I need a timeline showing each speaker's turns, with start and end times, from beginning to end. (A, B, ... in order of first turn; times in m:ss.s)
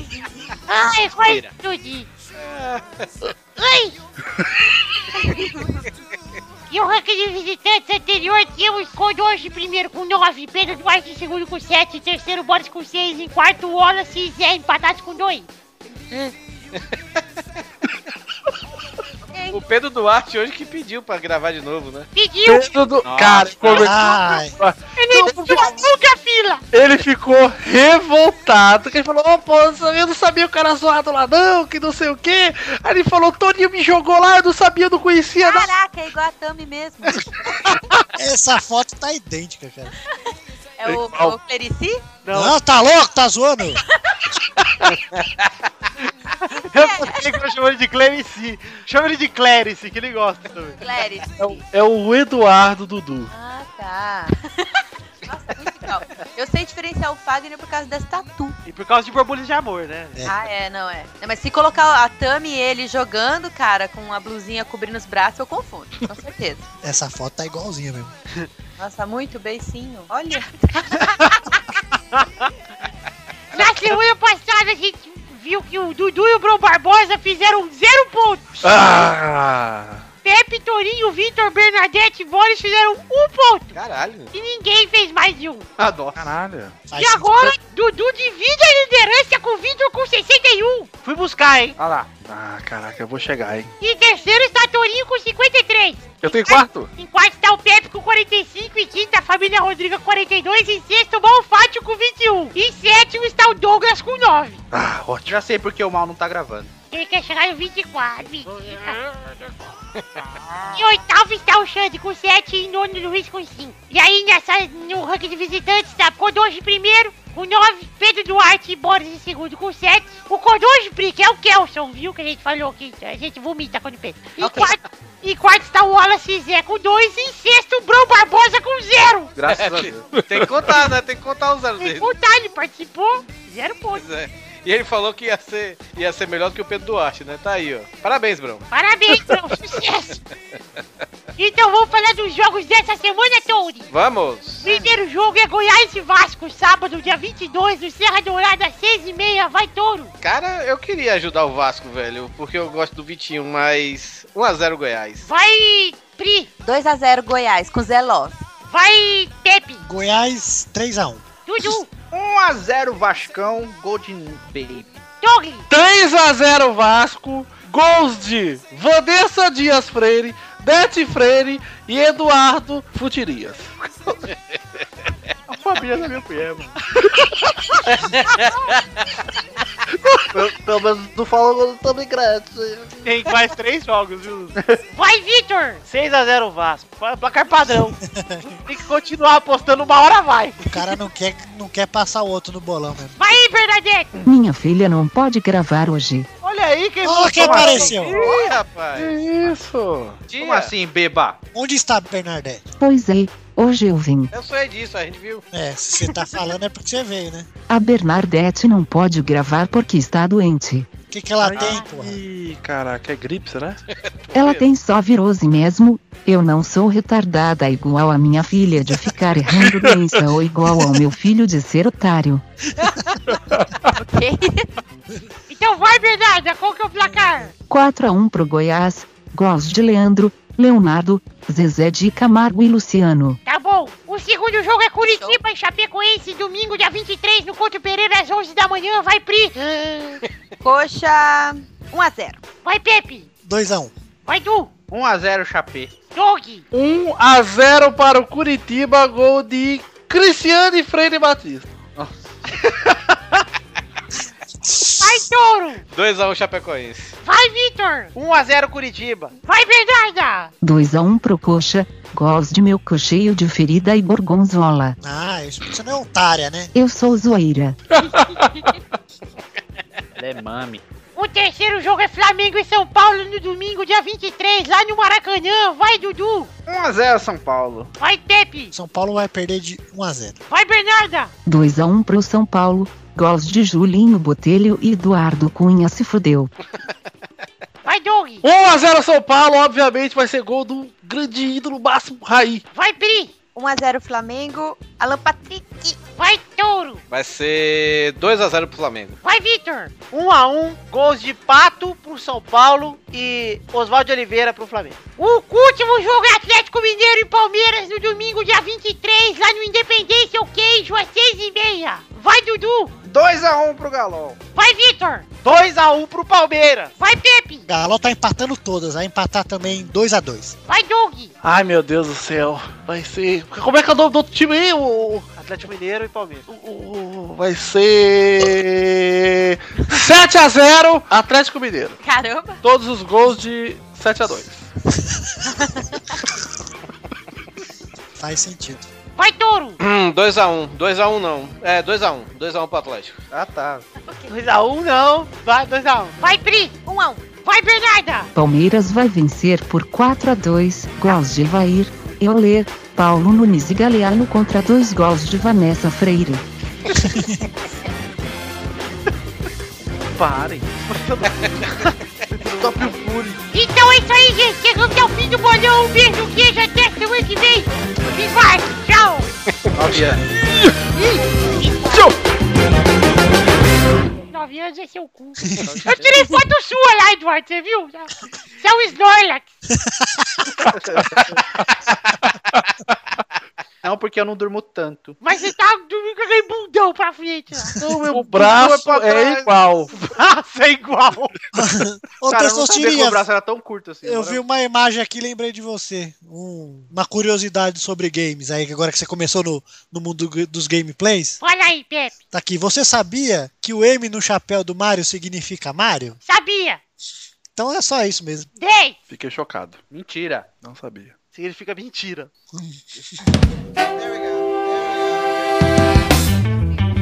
0:00.7-0:02.1 A
0:01.2-0:01.5 B
0:02.3-0:03.1 B
0:03.6-0:04.0 A
0:05.1-0:05.8 C
0:06.7-0:15.5 A
0:16.1-0:16.9 B
0:19.5-0:22.1 B
0:22.1-0:22.8 A
0:22.4-0:25.7 D
0:23.0-0:23.9 E
0:23.7-0:24.6 F
0:24.9-0:26.6 A
0:26.7-0:35.7 D
0:35.4-0:37.4 C
0:38.2-0:39.9 F
0:40.8-0:42.0 C
0:40.9-0:41.4 D
0:42.2-0:42.6 G
0:42.3-0:43.8 F
0:45.1-0:45.4 B
0:46.6-0:50.8 G
0:46.6-0:47.2 C
0:50.8-0:51.6 C
0:51.4-0:53.3 D
0:53.3-0:54.7 C
0:55.3-0:58.6 C
0:58.7-1:00.2 G
1:00.3-1:06.6 C
1:06.8-1:08.1 F
1:08.8-1:11.1 C
1:13.5-1:18.6 A
1:18.6-1:20.1 D
1:20.2-1:23.7 A
1:23.7-1:24.3 B
1:24.3-1:25.7 A
1:25.8-1:26.3 E
1:26.2-1:26.8 D
1:26.9-1:27.5 F
1:26.9-1:30.9 A
1:31.0-1:31.8 G
1:32.2-1:33.7 D
1:33.8-1:44.6 A
1:36.2-1:36.9 D
1:44.7-1:45.4 D
1:45.3-1:46.7 E
1:46.9-1:49.0 A
1:50.7-2:09.3 A
2:09.4-2:10.0 E
2:09.5-2:12.1 B
2:10.1-2:10.5 D
2:11.8-2:14.0 A
2:14.0-2:18.7 B
2:18.7-2:20.2 A
2:21.4-2:23.9 A
2:23.9-2:24.8 B
2:24.6-2:30.1 A
2:30.2-2:35.3 B
2:35.2-2:36.5 A
2:36.6-2:38.4 C
2:38.6-2:39.8 A
2:39.8-2:41.2 F
2:41.4-2:41.9 A
2:42.1-2:44.9 E
2:45.2-2:45.7 A
2:45.7-2:53.7 D
2:55.5-2:56.7 E
2:57.9-2:59.1 B
2:59.9-3:00.3 D
3:00.3-3:03.0 H
3:03.0-3:04.6 G
3:04.9-3:05.8 A
3:05.9-3:08.0 G
3:08.0-3:08.5 F
3:08.5-3:10.7 G
3:10.6-3:13.4 F
3:13.2-3:14.3 A
3:14.2-3:16.3 I
3:16.4-3:18.4 G
3:17.0-3:18.2 F
3:18.1-3:19.2 B
3:19.0-3:20.2 D
3:20.3-3:20.7 B
3:20.4-3:21.4 E
3:21.5-3:22.7 F
3:22.8-3:24.3 I
3:24.3-3:25.4 B
3:25.5-3:27.5 F
3:27.7-3:30.9 I
3:31.1-3:32.2 F
3:31.4-3:33.8 D
3:31.6-3:31.9 A
3:33.9-3:34.7 B
3:34.3-3:42.4 I
3:39.0-3:40.9 D
3:43.3-3:43.9 D
3:44.0-3:44.7 C
3:45.5-3:47.6 A
3:47.7-3:53.4 I
3:53.4-3:59.6 A
3:55.0-3:55.4 C
4:00.6-4:02.4 C
4:02.6-4:03.3 A
4:03.4-4:03.9 F
4:04.2-4:04.7 A
4:04.9-4:05.9 E
4:06.1-4:06.7 A
4:06.7-4:11.7 D
4:14.7-4:15.1 F
4:15.0-4:15.8 A
4:15.9-4:17.2 B
4:17.2-4:18.1 A
4:18.1-4:19.3 G
4:19.5-4:20.5 A
4:20.6-4:25.0 I
4:25.0-4:26.7 F
4:26.7-4:27.8 I
4:27.9-4:28.8 D
4:30.2-4:30.8 E
4:31.1-4:36.5 A
4:36.7-4:37.9 E
4:38.0-4:38.7 A
4:38.7-4:40.4 F
4:40.5-4:41.3 A
4:41.4-4:46.5 I
4:47.8-4:48.4 A
4:48.4-4:52.6 D
4:52.7-4:53.3 A
4:53.6-4:56.0 C
4:56.2-4:57.0 A
4:57.1-4:59.2 B
4:59.2-4:59.9 A
5:00.1-5:05.0 G
5:05.2-5:12.9 A
5:13.0-5:14.4 E
5:14.6-5:15.3 A
5:15.4-5:16.9 G
5:17.0-5:17.7 A
5:17.7-5:20.6 F
5:20.7-5:21.3 A
5:21.4-5:25.3 D
5:25.3-5:26.5 G
5:26.5-5:32.0 D
5:32.0-5:32.6 C
5:32.6-5:34.7 D
5:35.6-5:36.2 C
5:38.2-5:38.9 F
5:39.2-5:39.8 A
5:39.8-5:43.2 B
5:43.3-5:43.8 E
5:44.1-5:44.3 C
5:44.3-5:46.2 G
5:46.2-5:46.7 A
5:46.9-5:47.2 C
5:47.4-5:48.3 A
5:48.3-5:56.4 I
5:57.0-5:57.4 F
6:00.2-6:03.0 G
6:02.6-6:03.4 E
6:03.5-6:09.3 A
6:09.8-6:10.2 E
6:10.6-6:11.0 D
6:11.5-6:12.1 A
6:14.3-6:19.5 A
6:15.6-6:16.1 E
6:19.8-6:20.4 F
6:20.7-6:22.6 D
6:20.8-6:21.0 E
6:23.8-6:25.2 E
6:25.2-6:27.7 A
6:27.8-6:29.9 D
6:28.1-6:29.5 E
6:29.9-6:31.3 G
6:31.5-6:33.3 F
6:32.3-6:34.4 E
6:34.0-6:41.4 F
6:41.4-6:42.1 A
6:42.3-6:46.2 F
6:46.2-6:46.8 A
6:47.6-6:48.5 F
6:48.6-6:49.0 A
6:49.1-6:49.8 D
6:49.9-6:50.5 E
6:50.6-6:51.1 D
6:51.3-6:52.3 G
6:52.5-6:52.8 F